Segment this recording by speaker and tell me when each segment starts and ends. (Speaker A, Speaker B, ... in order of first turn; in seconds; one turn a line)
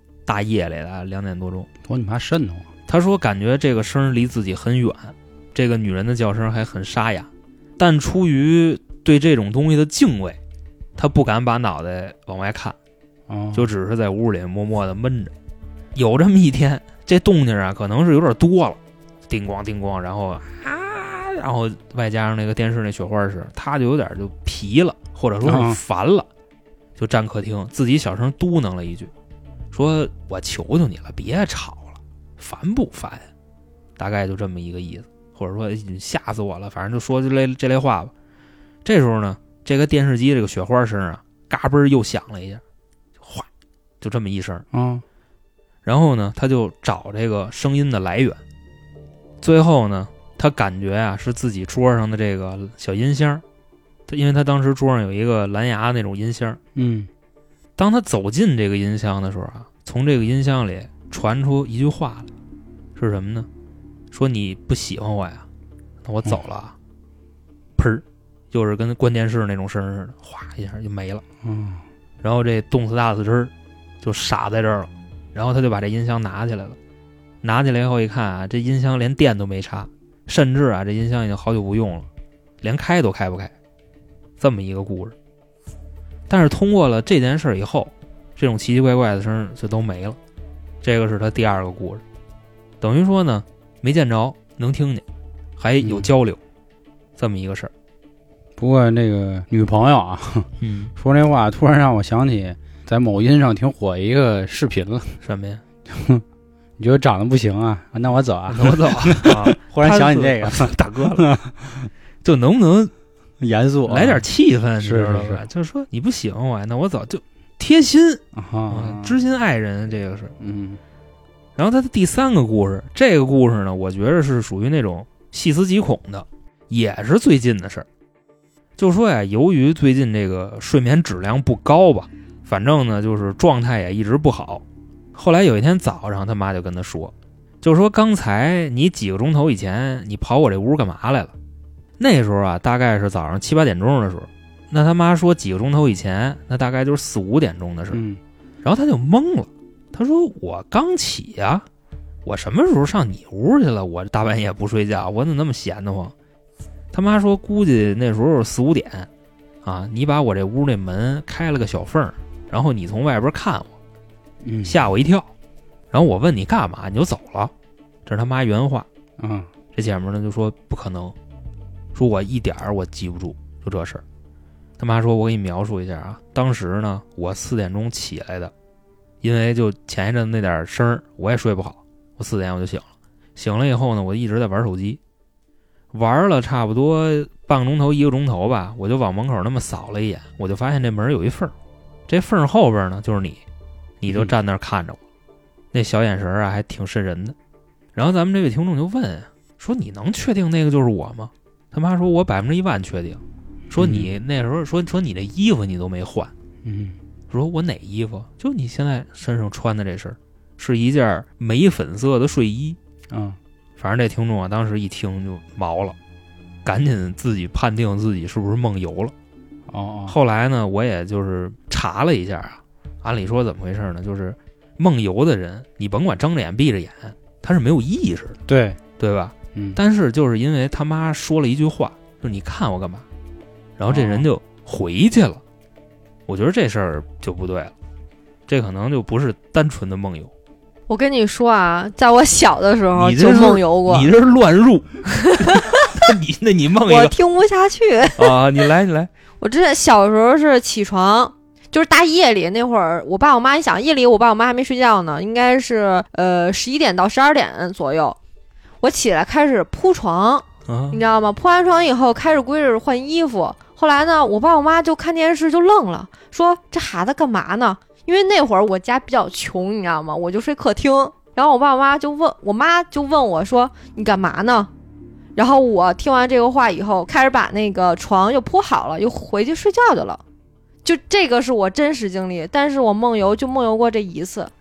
Speaker A: 0.3-1.7
Speaker B: 1.8-2.7
Speaker A: 2.9-10.4
Speaker A: 11.0-12.8
Speaker B: 13.3-13.7
Speaker A: 13.5-15.3
Speaker A: 15.9-26.3
Speaker B: 25.4-25.8
Speaker A: 27.0-29.1
Speaker A: 29.7-33.3
Speaker A: 34.0-38.1
Speaker A: 38.8-42.6
Speaker A: 44.0-44.6
Speaker B: 44.7-45.0
Speaker A: 45.8-48.4
Speaker A: 49.4-53.4
Speaker A: 54.1-56.6
Speaker B: 56.7-57.1
Speaker A: 57.8-62.3
Speaker A: 63.0-63.5
Speaker A: 64.1-65.4
Speaker A: 66.0-66.7
Speaker A: 67.8-71.2
Speaker B: 71.4-71.8
Speaker A: 72.2-76.8
Speaker A: 77.4-82.1
Speaker A: 82.6-83.5
Speaker A: 84.4-85.1
Speaker A: 86.3-90.2
Speaker A: 90.8-92.0
Speaker A: 92.8-95.0
Speaker A: 95.6-96.4
Speaker B: 95.8-96.1
Speaker A: 97.2-97.7
Speaker B: 98.6-105.2
Speaker A: 100.6-100.9
Speaker A: 105.2-105.6
Speaker B: 105.9-106.2
Speaker B: 106.8-111.9
Speaker A: 108.5-111.3
Speaker A: 112.2-112.9
Speaker B: 113.4-114.2
Speaker A: 113.9-120.3
Speaker B: 114.8-115.4
Speaker B: 118.3-119.2
Speaker B: 120.4-120.8
Speaker A: 121.5-127.9
Speaker A: 128.8-134.6
Speaker A: 135.1-141.3
Speaker A: 142.0-148.0
Speaker B: 147.9-148.2
Speaker A: 148.6-151.6
Speaker A: 152.2-156.1
Speaker A: 156.9-159.1
Speaker A: 159.6-163.7
Speaker B: 164.4-164.8
Speaker A: 164.6-165.3
Speaker A: 165.9-167.5
Speaker A: 168.1-168.9
Speaker B: 169.2-169.5
Speaker A: 169.7-171.1
Speaker A: 171.9-174.0
Speaker A: 174.8-178.5
Speaker A: 179.2-185.0
Speaker A: 185.9-191.5
Speaker A: 192.1-193.4
Speaker A: 194.0-195.0
Speaker A: 195.7-197.3
Speaker A: 197.9-203.2
Speaker B: 203.7-204.1
Speaker A: 203.7-206.3
Speaker B: 206.6-207.0
Speaker A: 207.3-212.8
Speaker B: 213.1-213.4
Speaker A: 213.8-215.9
Speaker A: 216.6-219.1
Speaker B: 219.7-220.2
Speaker A: 220.1-228.4
Speaker B: 228.5-228.8
Speaker A: 229.0-233.0
Speaker B: 229.5-229.8
Speaker A: 233.8-235.4
Speaker B: 233.9-234.2
Speaker A: 236.3-237.7
Speaker A: 238.5-240.3
Speaker C: 240.9-244.1
Speaker A: 242.9-247.1
Speaker C: 245.3-245.9
Speaker C: 246.8-248.4
Speaker A: 248.2-249.1
Speaker C: 249.4-258.2
Speaker C: 258.8-274.7
Speaker A: 260.7-261.0
Speaker C: 275.4-280.2
Speaker C: 280.8-284.5